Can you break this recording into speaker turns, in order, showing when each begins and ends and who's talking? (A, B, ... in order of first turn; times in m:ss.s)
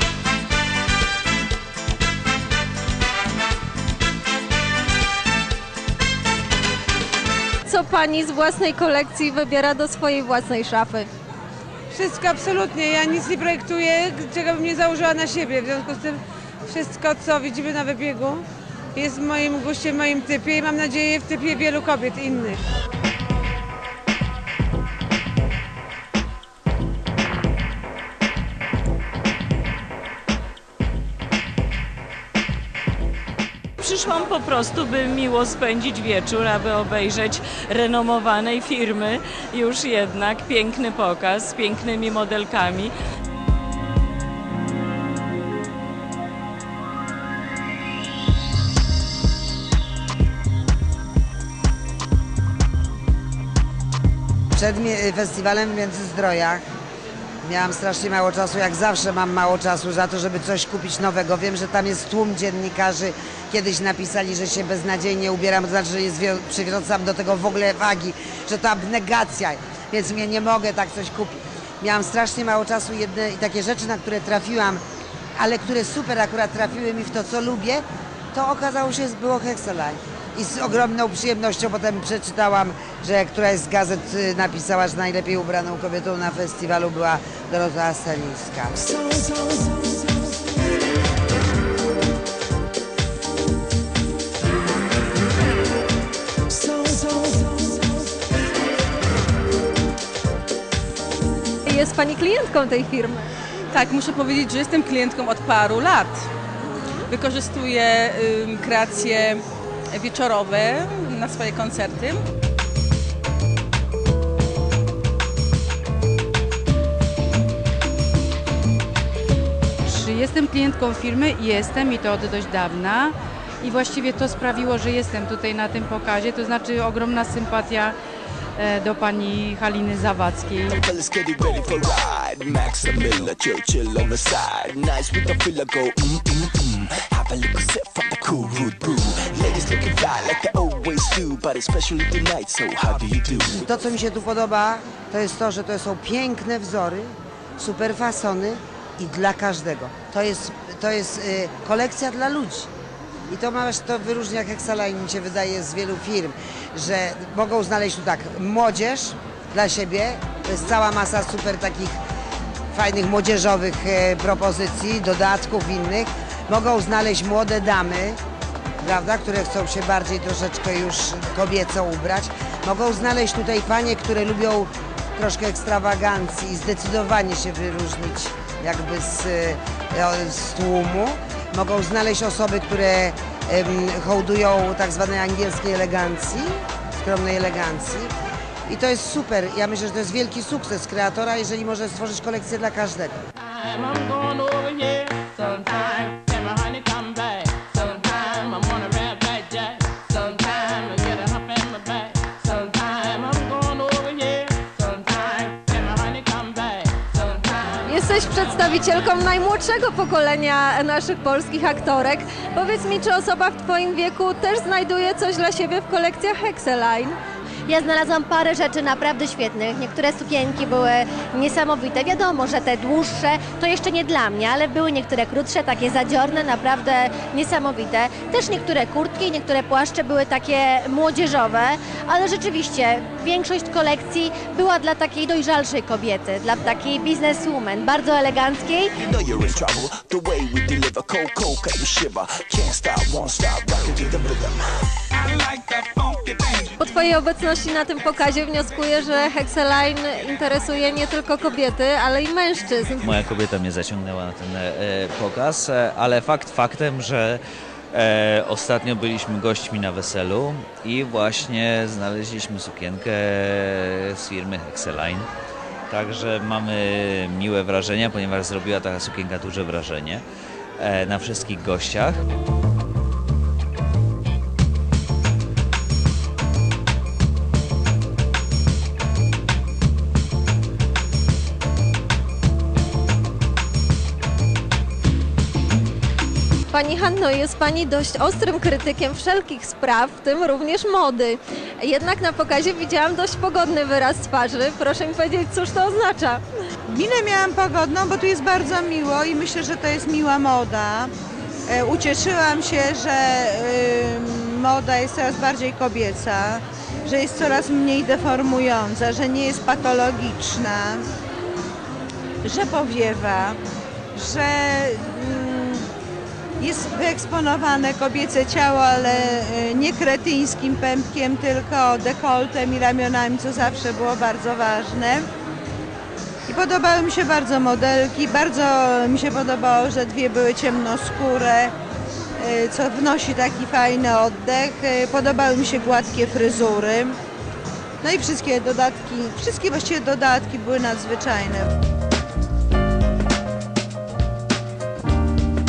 0:07.7-0:11.1 A
0:11.9-0:16.2 B
0:16.7-0:18.4 B
0:18.9-0:22.6 B
0:33.8-0:42.9 C
0:54.5-0:56.6 D
0:57.4-1:14.8 D
1:15.4-1:28.8 D
1:41.7-1:43.3 A
1:43.7-1:46.2 E
1:47.1-1:49.4 E
1:49.9-1:52.2 E
1:59.8-2:07.9 F
2:08.6-2:10.8 F
2:10.7-2:23.7 G
2:23.6-2:32.7 D
2:33.3-2:42.0 D
2:42.7-2:48.2 D
2:48.8-3:08.1 D
3:08.7-3:13.2 D
3:27.8-3:37.2 A
3:37.7-3:58.9 H
3:59.0-4:04.6 G
4:05.2-4:06.7 G
4:06.8-4:13.1 A
4:13.0-4:17.4 I
4:17.9-4:25.3 I
4:25.9-4:30.2 I
4:30.8-4:32.2 I
4:46.7-4:56.4 A
4:56.9-5:01.1 J
5:01.7-5:11.0 J
5:12.4-5:13.6 J
5:14.1-5:15.9 J
5:16.6-5:25.3 J
5:26.5-5:31.7 J
5:32.4-5:37.2 J
5:38.0-5:41.7 J